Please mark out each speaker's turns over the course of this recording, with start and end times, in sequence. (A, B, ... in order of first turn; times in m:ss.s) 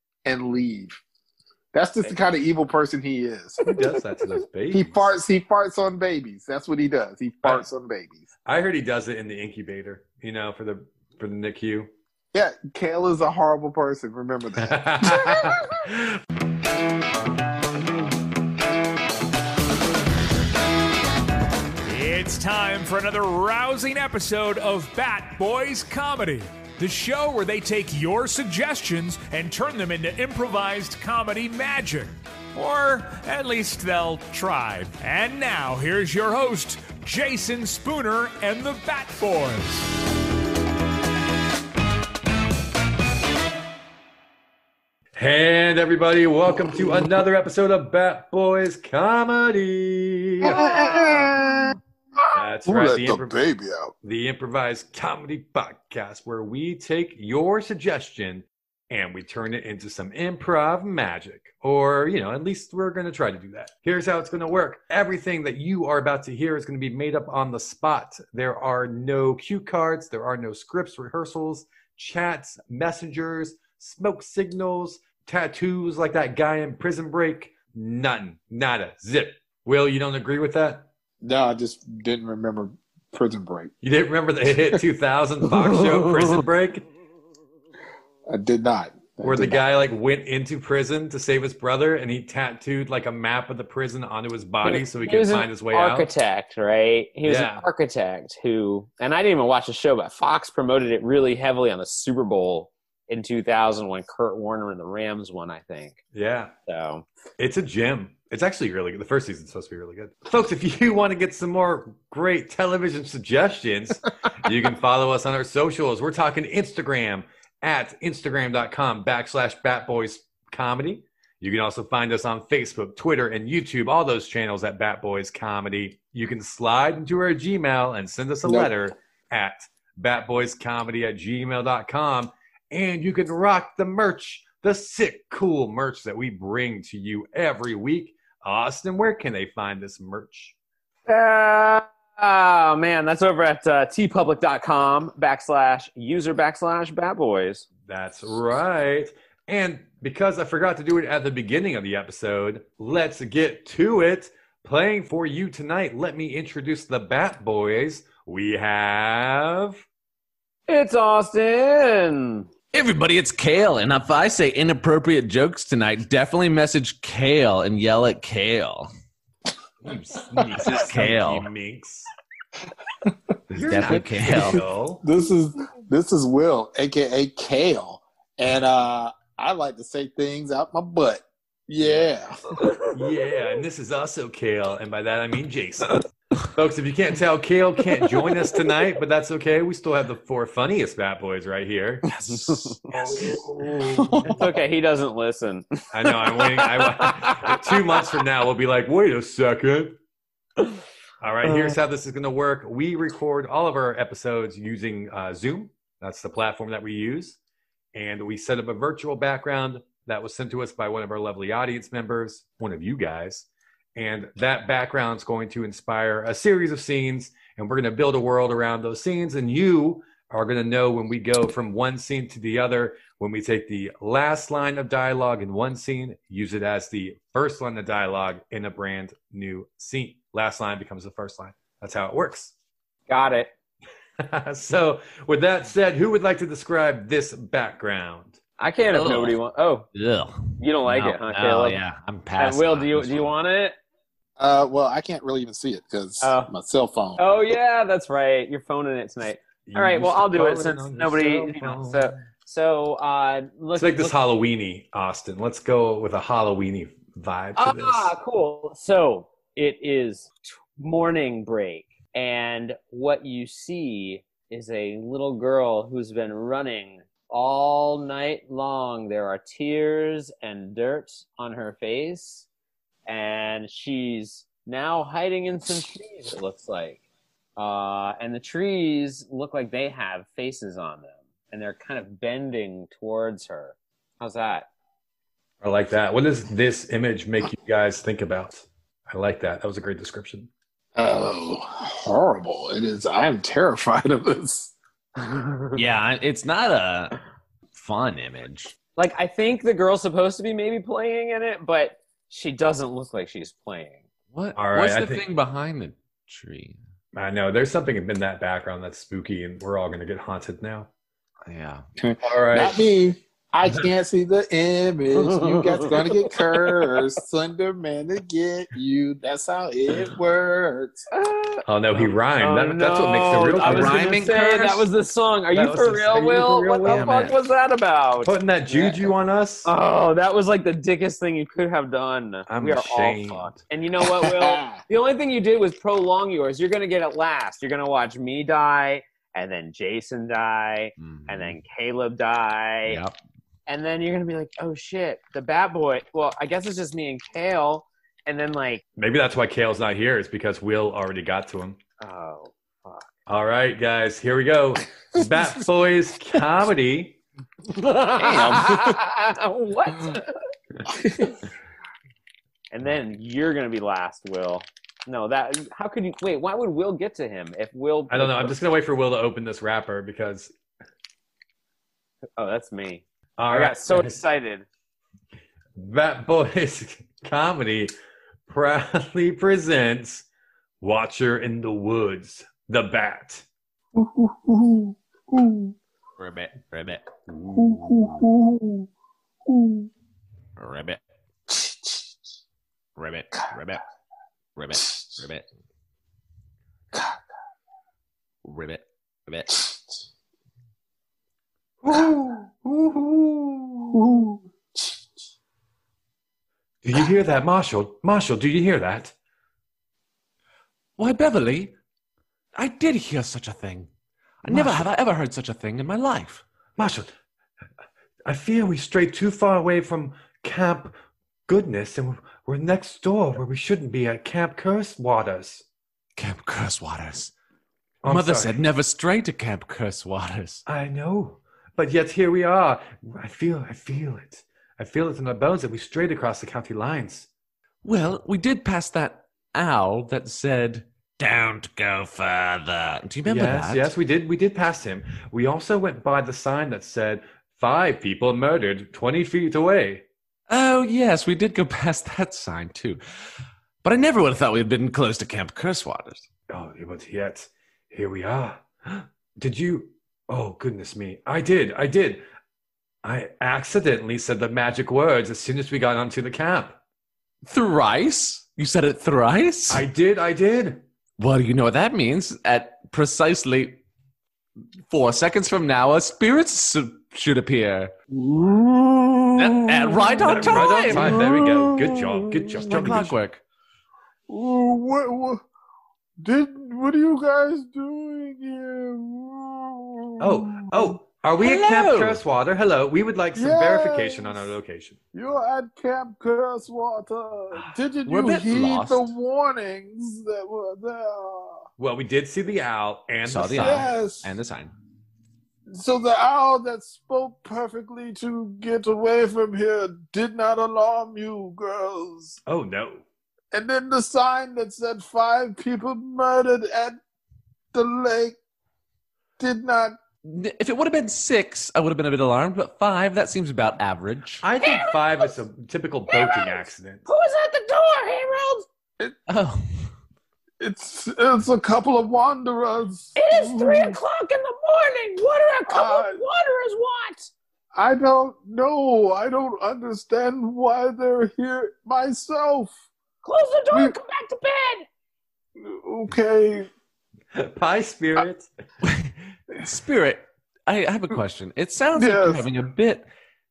0:00.2-0:01.0 A
0:01.7-0:03.6 A
0:03.6-0:05.1 B
0:04.7-0:08.3 A
0:08.5-0:11.9 B
0:12.3-0:15.4 A
0:14.6-0:16.2 B
0:21.9-0:39.9 C
0:45.2-0:50.7 B
0:50.4-0:51.8 A
0:50.6-0:51.2 D
0:52.4-0:53.4 B
0:52.6-0:53.9 A
0:54.0-1:20.9 B
1:21.2-1:23.7 A
1:23.8-1:26.8 B
1:28.3-1:29.6 A
1:29.2-1:36.1 B
1:34.6-1:46.0 D
1:37.3-1:37.7 B
1:46.1-1:46.5 B
1:46.7-1:47.1 D
1:47.4-2:20.6 B
2:08.4-2:08.7 A
2:21.1-2:27.7 D
2:27.9-2:39.8 B
2:40.7-2:42.5 D
2:42.7-2:48.9 E
2:49.8-2:52.1 B
2:50.5-2:51.5 E
2:53.5-2:55.0 B
2:53.5-2:54.6 E
2:53.9-3:02.5 A
3:02.9-3:12.1 B
3:12.5-3:12.7 D
3:12.9-3:14.4 B
3:13.0-3:14.3 A
3:14.2-3:17.6 D
3:15.9-3:20.0 B
3:21.2-3:27.4 B
3:27.9-3:52.5 B
3:53.1-3:53.5 D
3:54.2-3:58.4 B
3:58.6-3:59.9 D
3:58.9-3:59.4 E
3:59.9-4:03.3 E
4:00.6-4:01.8 D
4:02.4-4:03.8 D
4:04.4-4:07.2 A
4:06.2-4:06.5 D
4:07.2-4:14.2 D
4:09.7-4:12.2 B
4:13.8-4:18.1 B
4:17.6-4:32.5 D
4:33.1-4:37.0 D
4:37.6-4:44.7 D
4:45.6-4:50.5 B
4:51.0-4:54.7 A
4:55.7-4:57.2 E
4:57.7-4:58.8 E
4:59.0-5:04.0 D
5:04.3-5:06.8 E
5:04.6-5:05.2 B
5:07.1-5:10.9 B
5:11.5-5:11.8 E
5:12.0-5:21.1 A
5:12.2-5:12.8 B
5:15.7-5:17.0 D
5:21.1-5:29.1 D
5:21.7-5:24.0 B
5:23.6-5:24.9 E
5:25.5-5:27.1 B
5:26.8-5:27.4 E
5:28.2-5:29.7 B
5:29.6-5:43.0 D
5:32.5-5:33.6 B
5:34.0-5:34.8 A
5:41.0-5:41.6 E
5:42.9-5:43.2 E
5:43.7-5:48.8 D
5:49.0-5:51.8 B
5:52.0-5:53.1 D
5:53.3-5:57.2 B
5:57.9-6:00.3 D
5:58.2-5:58.8 E
5:58.2-5:58.7 A
6:00.9-6:01.4 A
6:02.7-6:08.6 D
6:08.1-6:10.5 B
6:12.4-6:14.7 D
6:13.4-6:14.2 B
6:15.8-6:17.9 B
6:18.5-6:20.3 B
6:20.8-6:23.4 B
6:24.0-6:25.8 A
6:26.2-6:27.0 E
6:27.3-6:28.2 B
6:27.6-6:28.9 A
6:29.5-6:29.9 A
6:30.6-6:31.0 E
6:31.5-6:32.0 A
6:33.0-6:33.8 E
6:34.6-6:35.4 E
6:38.4-6:39.7 E
6:41.8-6:44.0 B
6:43.9-6:44.8 A
6:46.8-6:49.1 B
6:51.0-6:51.8 E
6:52.6-6:53.9 E
6:54.4-6:56.4 E
6:54.5-6:54.9 B
6:56.8-6:57.1 B
6:58.3-7:00.9 B
7:01.5-7:05.6 B
7:06.2-7:07.3 E
7:08.0-7:08.6 B
7:08.1-7:10.6 E
7:10.7-7:17.3 B
7:17.8-7:23.9 E
7:23.3-7:30.0 B
7:30.5-7:33.0 E
7:33.8-7:36.3 E
7:36.5-7:42.2 B
7:43.0-7:46.8 B
7:47.5-7:49.8 E
7:49.7-7:50.8 B
7:51.2-7:53.8 E
7:54.9-7:57.9 E
7:58.1-8:03.0 A
7:59.4-8:01.4 E
8:00.3-8:03.2 B
8:02.6-8:03.4 E
8:04.3-8:05.4 A
8:06.2-8:10.7 A
8:10.2-8:15.0 B
8:11.4-8:12.2 E
8:13.4-8:14.5 A
8:15.1-8:21.7 A
8:18.1-8:19.1 E
8:21.8-8:23.9 B
8:23.3-8:24.7 E
8:23.6-8:24.3 A
8:25.7-8:32.4 A
8:32.5-8:33.0 B
8:33.5-8:37.0 A
8:37.7-8:38.4 A
8:39.4-8:40.0 A
8:40.2-8:44.4 E
8:44.4-8:47.1 B
8:44.6-8:45.3 D
8:46.1-8:48.7 D
8:49.3-8:49.9 E
8:50.6-8:54.0 A
8:53.2-8:57.3 D
8:55.7-8:56.2 A
8:57.7-9:02.8 A
9:03.2-9:04.9 D
9:03.7-9:04.0 A
9:05.6-9:06.7 A
9:07.3-9:08.5 B
9:08.8-9:13.1 E
9:12.0-9:12.5 A